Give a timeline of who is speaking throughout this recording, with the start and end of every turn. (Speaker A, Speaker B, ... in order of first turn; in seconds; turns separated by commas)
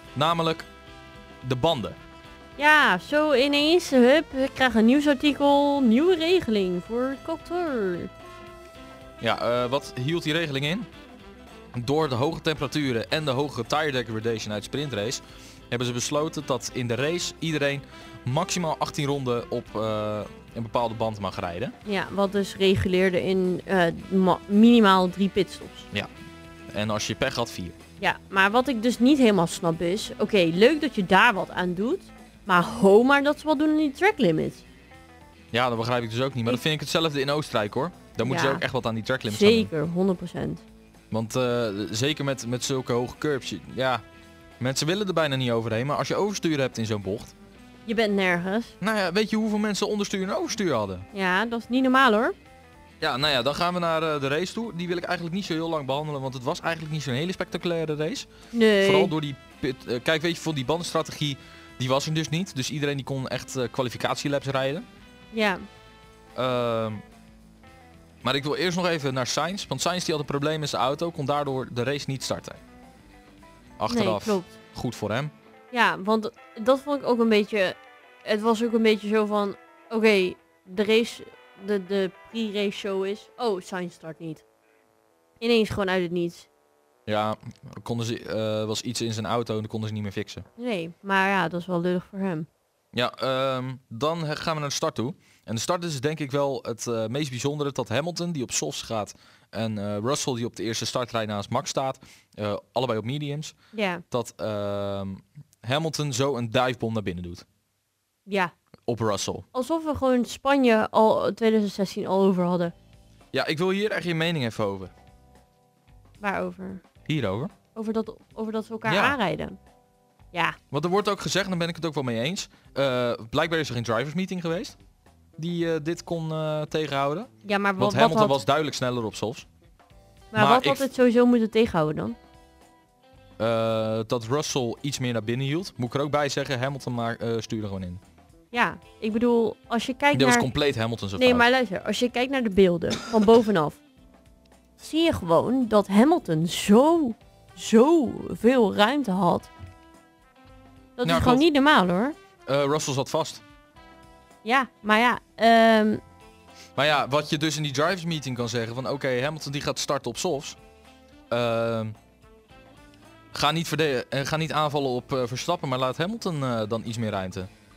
Speaker A: 0.1-0.7, Speaker A: 1.4-2.0, Speaker B: 2.6-8.1, Speaker A: 9.2-10.9, Speaker A: 11.7-21.8, Speaker B: 21.9-25.9, Speaker A: 26.7-27.8, Speaker B: 28.0-34.6, Speaker A: 35.5-39.7, Speaker B: 38.2-38.6, Speaker B: 39.3-40.6, Speaker A: 41.1-44.0, Speaker A: 44.6-47.3, Speaker B: 47.9-48.7, Speaker A: 48.8-51.1, Speaker B: 51.1-52.4, Speaker A: 53.0-58.3, Speaker B: 58.5-59.1, Speaker A: 58.8-64.9, Speaker B: 65.3-65.7, Speaker A: 66.3-67.0, Speaker A: 68.2-72.6, Speaker A: 73.8-75.3, Speaker B: 73.9-74.6, Speaker B: 75.7-84.4, Speaker B: 85.4-86.5, Speaker A: 87.1-90.5, Speaker B: 90.6-92.5, Speaker A: 92.9-103.5, Speaker B: 103.7-104.0, Speaker A: 104.1-107.5, Speaker B: 108.3-108.5, Speaker A: 108.9-109.5, Speaker B: 109.5-112.7, Speaker A: 113.3-114.9, Speaker B: 116.2-116.8, Speaker A: 117.1-117.5, Speaker B: 117.8-119.6, Speaker A: 118.9-119.2, Speaker B: 120.3-120.6, Speaker A: 120.7-124.8, Speaker A: 125.4-129.5, Speaker B: 127.4-128.4, Speaker B: 130.3-132.2, Speaker A: 130.3-130.9, Speaker A: 133.4-138.0, Speaker B: 138.5-140.5, Speaker A: 140.1-141.5, Speaker B: 141.2-143.8, Speaker B: 144.8-149.5, Speaker B: 151.0-152.2, Speaker A: 151.0-151.4, Speaker A: 152.5-153.4, Speaker B: 154.4-156.0, Speaker A: 156.8-160.6, Speaker A: 161.3-161.9, Speaker A: 163.3-167.5